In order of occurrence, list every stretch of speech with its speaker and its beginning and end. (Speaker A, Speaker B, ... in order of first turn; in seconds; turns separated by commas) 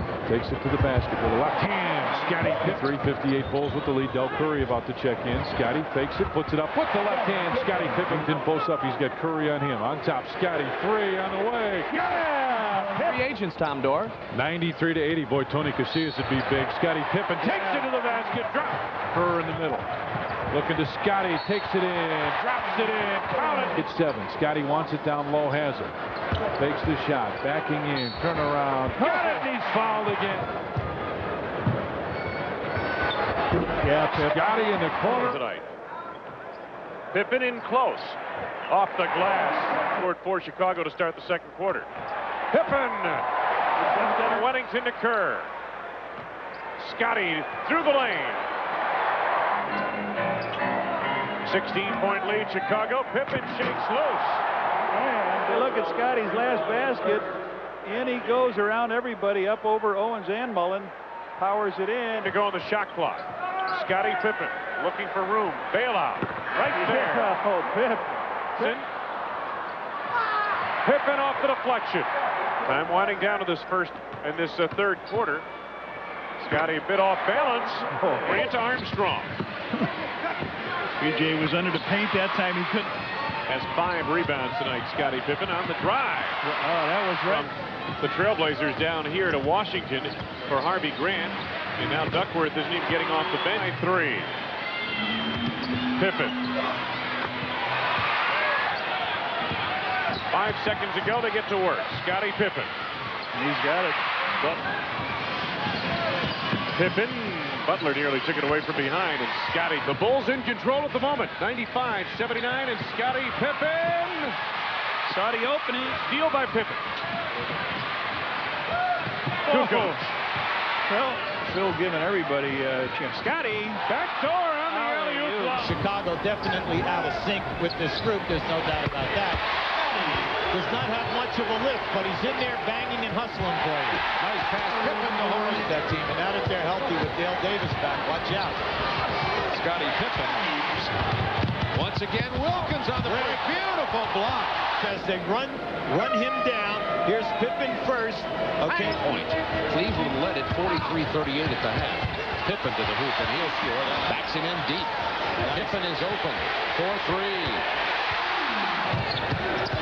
Speaker A: 0.3-12.1, Speaker B: 12.3-12.8, Speaker A: 14.3-19.9, Speaker C: 17.5-18.7, Speaker A: 20.5-25.9, Speaker C: 23.1-23.7, Speaker A: 26.6-30.5, Speaker B: 29.0-29.5, Speaker B: 33.8-34.5, Speaker A: 34.2-35.4, Speaker C: 34.9-35.7, Speaker C: 37.1-41.9, Speaker C: 42.5-43.3, Speaker C: 43.9-45.5, Speaker B: 44.0-44.4, Speaker C: 46.8-48.5, Speaker C: 51.4-54.4, Speaker B: 54.9-57.3, Speaker B: 57.8-62.3, Speaker C: 62.2-67.3, Speaker B: 66.6-68.8, Speaker C: 68.6-68.9, Speaker C: 70.8-72.1, Speaker C: 72.6-75.5, Speaker C: 76.4-79.3, Speaker B: 78.0-78.5, Speaker B: 81.0-83.0, Speaker C: 83.5-86.4, Speaker B: 86.4-87.5, Speaker C: 87.2-94.3, Speaker C: 96.0-96.4, Speaker C: 100.3-102.7, Speaker B: 103.3-104.0, Speaker C: 106.7-114.4, Speaker B: 115.1-116.0, Speaker C: 116.0-116.8, Speaker B: 119.5-120.0, Speaker C: 119.5-120.1, Speaker B: 120.9-123.8, Speaker C: 123.9-125.7, Speaker B: 124.7-125.8, Speaker D: 125.5-129.4, Speaker D: 130.5-134.1, Speaker E: 134.2-136.2, Speaker D: 135.4-138.7, Speaker E: 139.4-140.9, Speaker E: 141.7-143.9, Speaker D: 143.1-149.0, Speaker E: 148.6-157.7